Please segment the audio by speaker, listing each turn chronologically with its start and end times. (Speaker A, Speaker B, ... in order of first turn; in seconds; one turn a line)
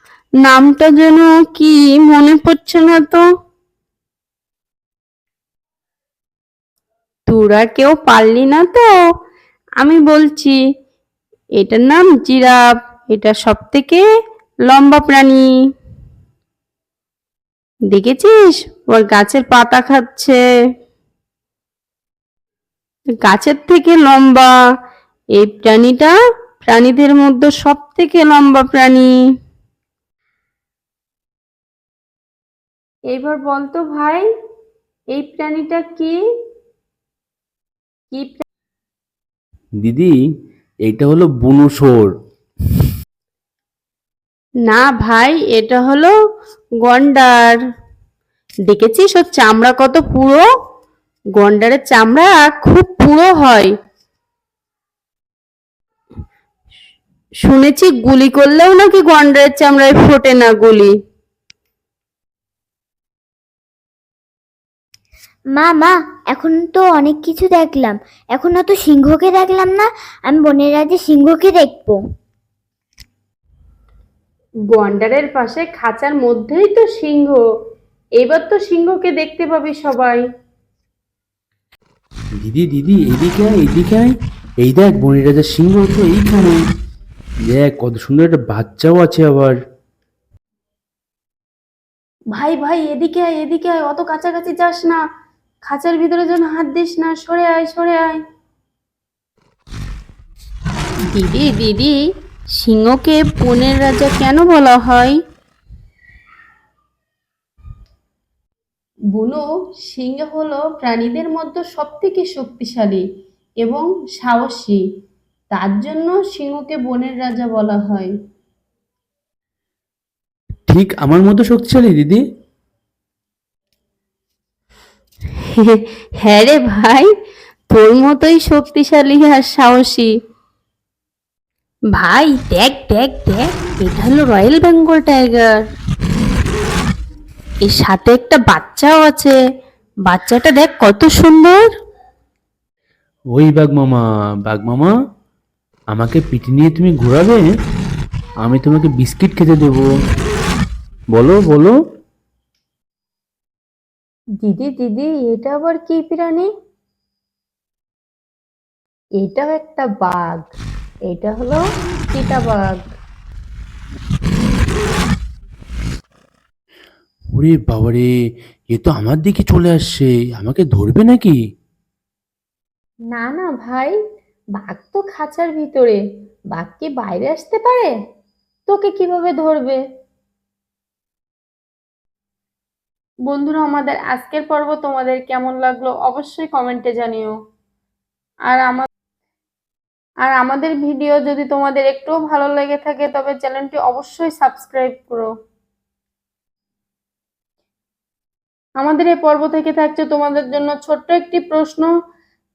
Speaker A: 0.4-3.2
Speaker A: 7.3-8.9
Speaker A: 9.8-10.6
Speaker A: 11.6-14.0
Speaker A: 14.7-15.4
Speaker A: 17.9-20.4
Speaker A: 23.2-24.5
Speaker A: 25.4-29.1
Speaker A: 33.1-34.2
Speaker A: 35.1-36.1
Speaker A: 38.1-38.4
Speaker B: 39.8-40.1
Speaker B: 40.8-42.1
Speaker A: 44.6-46.1
Speaker A: 46.8-47.6
Speaker A: 48.7-50.5
Speaker A: 51.4-53.7
Speaker A: 57.4-60.9
Speaker C: 65.5-72.0
Speaker A: 74.7-77.4
Speaker A: 78.2-80.2
Speaker B: 82.4-86.6
Speaker B: 87.5-89.5
Speaker A: 92.3-95.0
Speaker A: 95.6-98.2
Speaker A: 101.1-102.0
Speaker A: 102.6-105.2
Speaker A: 109.1-113.0
Speaker A: 113.6-114.8
Speaker A: 115.5-118.1
Speaker B: 120.7-122.2
Speaker A: 125.5-127.1
Speaker A: 127.7-130.1
Speaker A: 131.9-135.6
Speaker A: 137.6-139.4
Speaker A: 140.1-141.6
Speaker B: 143.3-144.9
Speaker B: 145.9-147.5
Speaker B: 148.4-149.9
Speaker B: 151.1-151.7
Speaker A: 154.4-156.5
Speaker A: 159.2-160.4
Speaker A: 161.1-162.8
Speaker B: 167.3-168.1
Speaker B: 168.7-171.4
Speaker A: 173.1-173.9
Speaker A: 174.6-176.0
Speaker A: 176.5-177.9
Speaker A: 178.7-179.8
Speaker A: 183.3-187.3
Speaker A: 188.5-188.9
Speaker A: 190.2-195.3
Speaker A: 198.8-201.9